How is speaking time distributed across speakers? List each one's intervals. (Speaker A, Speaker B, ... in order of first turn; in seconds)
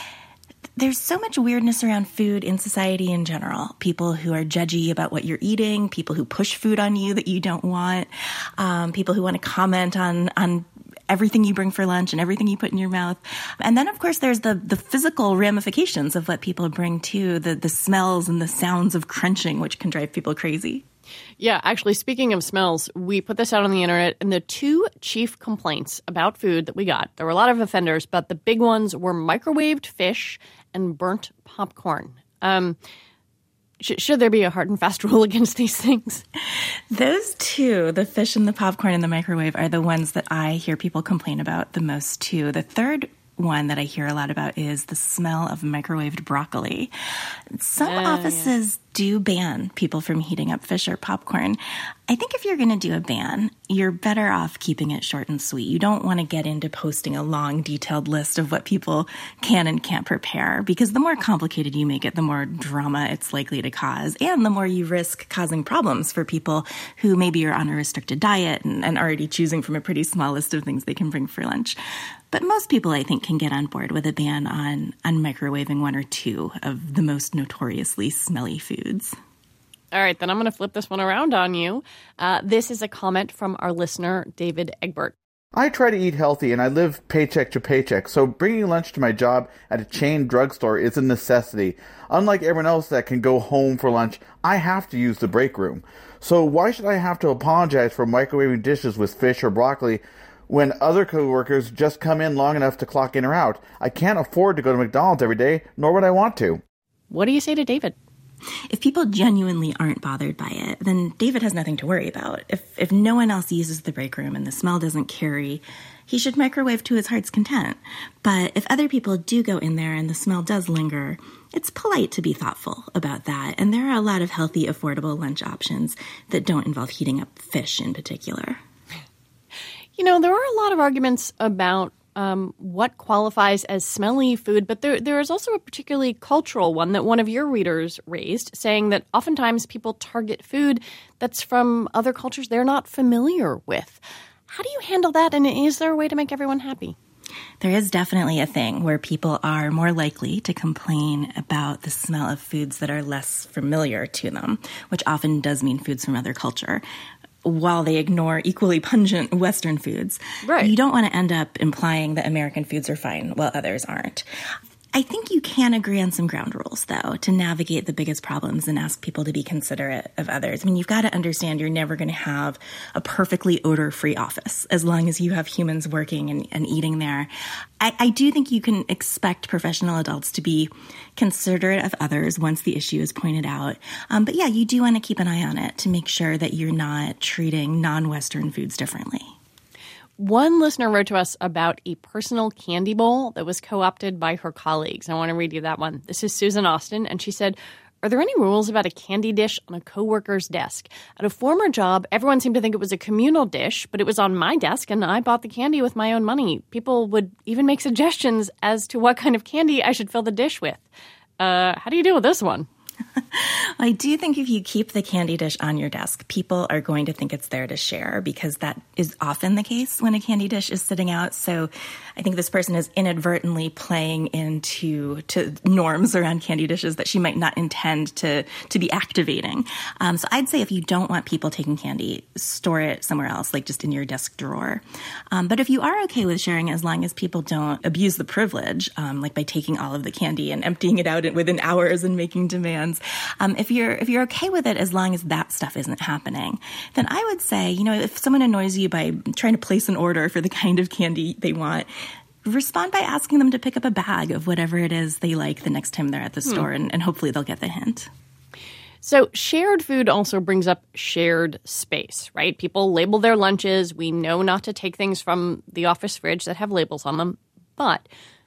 Speaker A: 0.8-20.9, 36.9-46.9, 47.5-71.8, 72.3-79.2, 108.7-128.6, 147.6-156.8, 157.4-164.2, 164.9-189.3, 213.2-251.9, 252.4-258.1
Speaker B: 21.4-32.8, 33.8-36.2, 47.8-48.5, 79.9-85.2, 107.1-108.0, 130.0-147.0, 160.4-160.7, 190.2-210.9, 211.4-212.7, 259.0-268.1
Speaker C: 85.5-106.6